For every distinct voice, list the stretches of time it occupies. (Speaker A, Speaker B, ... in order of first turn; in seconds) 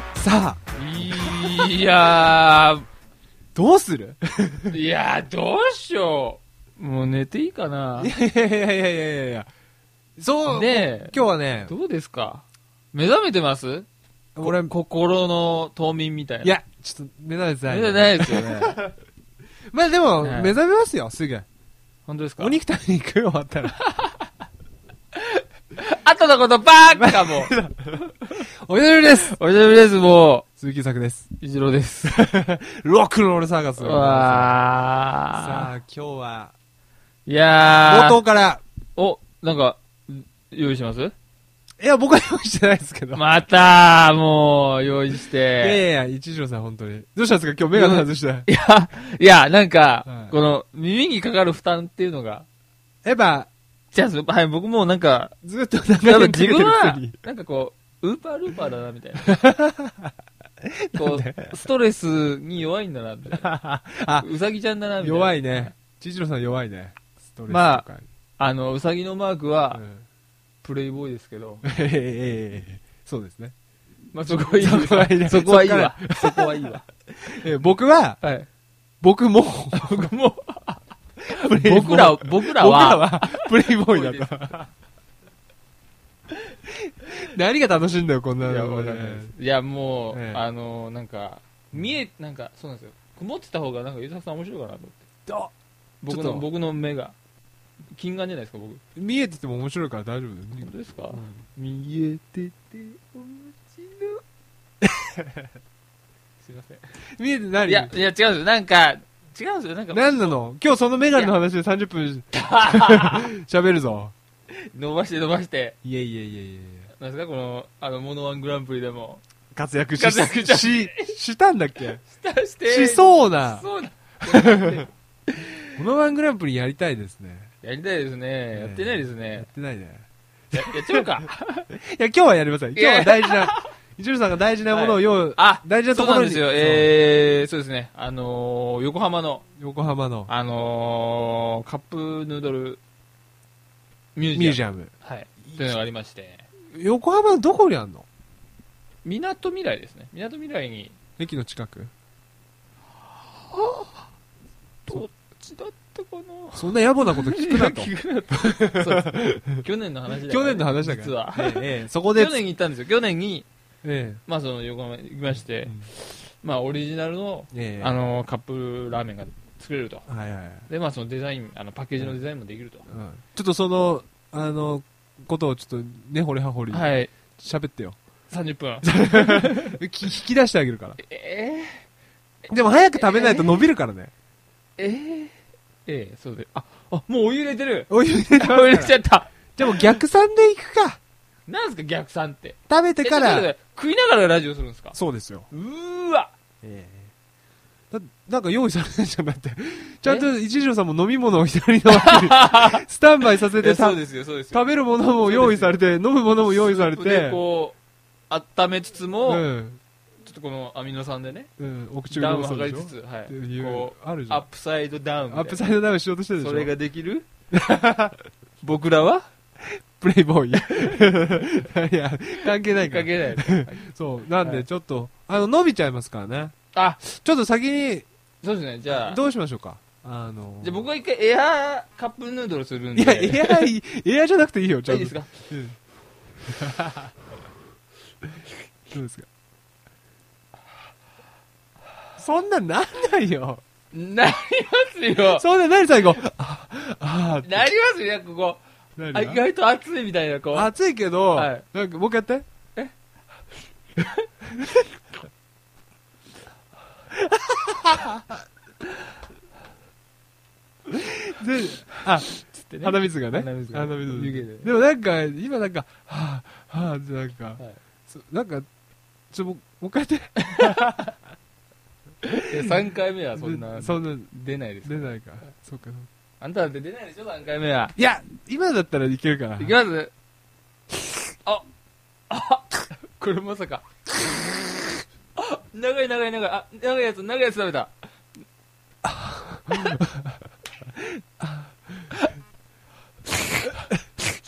Speaker A: 0.1-0.6, 1.1-1.4, 3.5-4.8, 8.0-9.5, 10.2-11.7, 14.4-14.7, 16.4-19.0, 19.7-21.5, 22.4-23.8, 26.9-29.3, 30.6-31.3, 32.0-34.6, 35.4-36.5, 37.8-38.6, 41.8-43.2, 45.6-48.5, 50.1-50.3, 53.0-53.5, 55.4-57.1, 59.2-61.6, 63.3-64.3, 65.0-68.1, 69.7-70.0, 71.6-73.5, 74.2-78.2, 79.0-80.1, 81.2-84.6, 86.5-89.3, 90.1-90.4, 95.3-95.5, 96.1-96.5, 99.0-101.4, 104.8-105.5, 107.0-107.9, 109.9-114.1, 115.8-116.9, 119.5-122.0, 122.7-123.7, 124.2-124.9, 125.8-127.5, 128.5-136.9, 139.6-140.3, 144.3-144.9, 145.4-145.8, 146.7-148.1, 151.2-151.9, 156.5-162.4, 163.8-164.2, 165.4-165.9, 167.5-168.0, 170.1-170.7, 172.9-178.0, 178.8-181.0, 182.5-184.1, 187.9-188.9, 189.6-191.0, 192.7-193.5, 194.9-195.5, 196.6-197.1, 197.9-204.0, 204.5-207.4, 209.3-209.8, 211.6-214.4, 215.3-216.7, 217.5-218.2, 219.6-228.1, 228.9-230.9, 232.9-235.8, 236.4-237.1, 238.9-239.3, 242.2-243.6, 245.2-247.6, 249.0-249.4, 250.5-252.5, 254.5-254.9, 257.1-258.4, 260.9-268.7, 269.3-271.1, 272.2-274.3, 274.9-276.1, 278.0-279.8, 289.0-290.3, 291.4-292.1
Speaker B: 0.8-2.9, 4.7-8.1, 10.5-13.9, 14.4-16.6, 17.7-18.8, 20.2-20.6, 22.1-22.6, 23.8-24.3, 25.1-27.6, 28.2-28.4, 29.1-30.5, 31.4-32.2, 33.8-35.7, 37.3-38.2, 39.0-41.1, 43.1-45.8, 47.7-52.5, 53.9-55.4, 56.0-59.3, 61.0-63.5, 64.2-65.7, 67.5-67.9, 68.4-69.8, 70.6-71.7, 74.1-76.8, 78.2-78.5, 79.7-84.7, 88.4-95.1, 96.0-97.2, 97.9-98.8, 100.6-104.2, 106.4-106.8, 107.6-110.4, 112.3-113.3, 114.5-115.8, 117.0-119.2, 120.0-121.2, 122.0-125.8, 127.6-129.5, 130.5-131.7, 132.8-133.7, 134.7-139.4, 140.3-142.8, 144.2-146.5, 149.0-151.0, 153.3-154.1, 154.9-163.5, 164.3-170.1, 170.7-172.9, 176.7-177.1, 178.3-179.8, 181.0-181.9, 182.9-183.6, 184.8-189.9, 191.5-195.0, 195.5-196.3, 201.9-202.8, 203.5-205.8, 206.4-207.8, 208.3-209.5, 210.2-211.5, 212.1-215.7, 216.4-217.3, 218.6-219.3, 220.7-221.0, 222.6-224.7, 226.7-227.0, 228.4-229.2, 230.6-233.7, 234.9-235.5, 243.9-245.4, 247.4-248.6, 249.1-250.7, 251.3-251.7, 254.0-254.3, 262.3-264.7, 270.4-271.1, 272.4-275.1, 276.4-278.0, 279.6-280.1, 282.3-283.9, 285.4-287.9